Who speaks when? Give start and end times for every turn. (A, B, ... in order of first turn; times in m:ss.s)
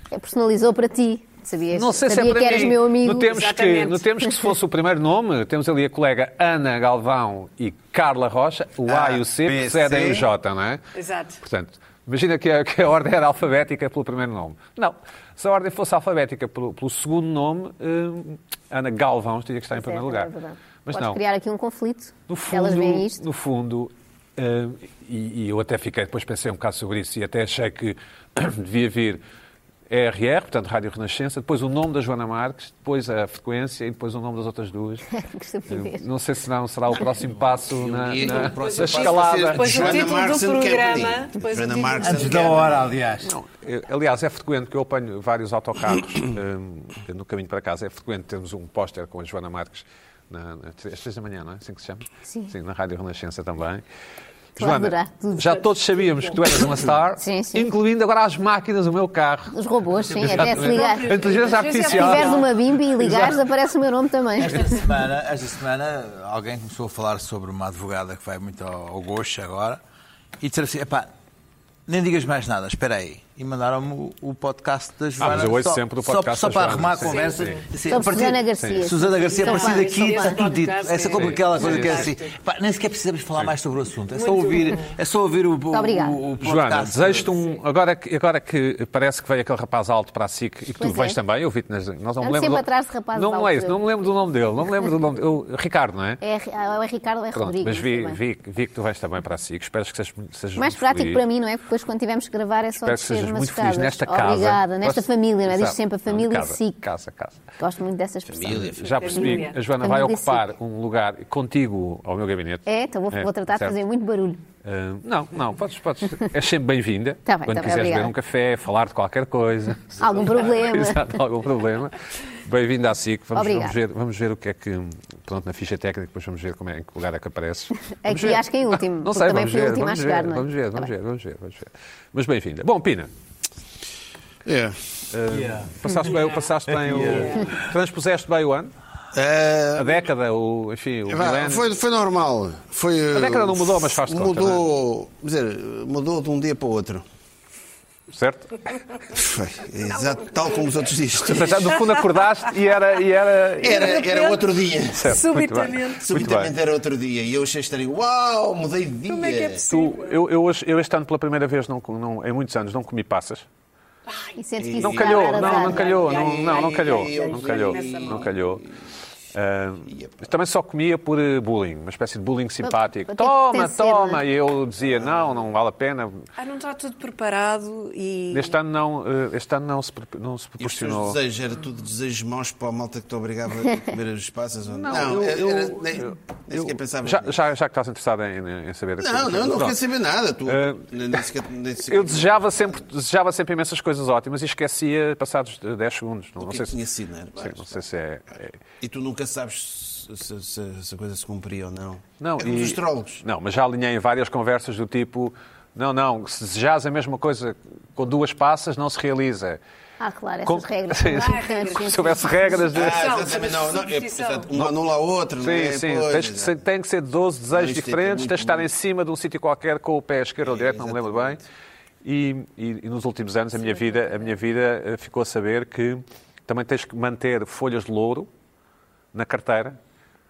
0:00.1-0:03.3 A
0:01.7-0:10.8 B
0:03.1-0:04.1 C
0:08.8-0:10.3 D
0:10.9-0:11.4 C
0:11.4-0:20.3 B
0:19.7-0:23.2 A
0:20.9-0:21.2 B
0:22.3-0:29.2 B
0:29.9-0:35.0 B
0:35.1-0:36.0 A
0:35.7-0:40.1 B
0:37.7-0:43.0 E
0:38.2-0:42.6 C
0:42.0-0:43.3 D
0:43.2-0:53.8 B
0:54.6-0:55.6 A
0:54.6-0:59.5 B
0:57.2-0:57.7 A
0:59.5-1:04.8 A
1:00.0-1:00.7 D
1:00.2-1:02.4 B
1:00.4-1:02.6 C
1:04.4-1:09.8 D
1:10.4-1:11.1 D
1:11.9-1:27.3 D
1:15.2-1:17.6 B
1:17.0-1:17.7 C
1:17.9-1:20.4 A
1:18.6-1:18.9 B
1:19.2-1:22.4 C
1:21.1-1:22.0 B
1:24.1-1:25.0 C
1:25.7-1:26.2 A
1:26.4-1:36.2 B
1:30.8-1:31.2 A
1:32.2-1:33.8 A
1:36.2-1:38.2 A
1:37.3-1:41.2 B
1:40.6-1:46.8 A
1:42.8-1:47.4 B
1:47.6-1:50.4 A
1:48.2-1:49.5 E
1:48.8-1:53.8 B
1:48.9-1:49.6 C
1:52.6-1:54.4 A
1:54.6-2:13.1 B
1:57.2-1:58.1 A
2:00.0-2:01.1 A
2:03.3-2:03.8 A
2:08.0-2:10.9 A
2:14.4-2:14.8 E
2:15.1-2:18.7 B
2:15.3-2:17.6 D
2:19.1-2:20.0 E
2:19.8-2:21.7 B
2:21.1-2:27.0 E
2:23.1-2:24.6 B
2:28.1-2:28.6 B
2:29.1-2:31.8 E
2:31.2-2:34.0 B
2:33.6-2:35.2 E
2:33.7-2:34.5 C
2:34.9-2:36.5 B
2:35.0-2:36.1 C
2:36.0-2:39.6 E
2:39.1-2:40.2 C
2:39.7-2:43.4 B
2:44.1-2:44.4 C
2:44.4-2:46.1 A
2:44.6-2:48.7 E
2:44.8-2:48.6 B
2:45.4-2:48.2 C
2:49.3-2:56.2 B
2:49.9-2:50.3 E
2:52.6-2:54.2 A
2:54.8-2:55.5 E
2:56.4-2:58.6 C
2:58.3-3:01.2 B
3:00.6-3:07.4 E
3:04.7-3:09.8 B
3:09.0-3:12.7 E
3:10.5-3:10.8 B
3:11.9-3:16.8 B
3:16.4-3:17.8 E
3:17.4-3:18.6 B
3:18.8-3:23.2 E
3:22.2-3:29.6 B
3:30.0-3:32.4 A
3:30.4-3:33.1 B
3:31.0-3:34.5 C
3:32.7-3:36.6 E
3:35.4-3:41.4 B
3:37.5-3:38.7 E
3:40.4-3:41.4 E
3:42.0-3:48.3 B
3:43.9-3:44.3 C
3:49.1-3:49.8 B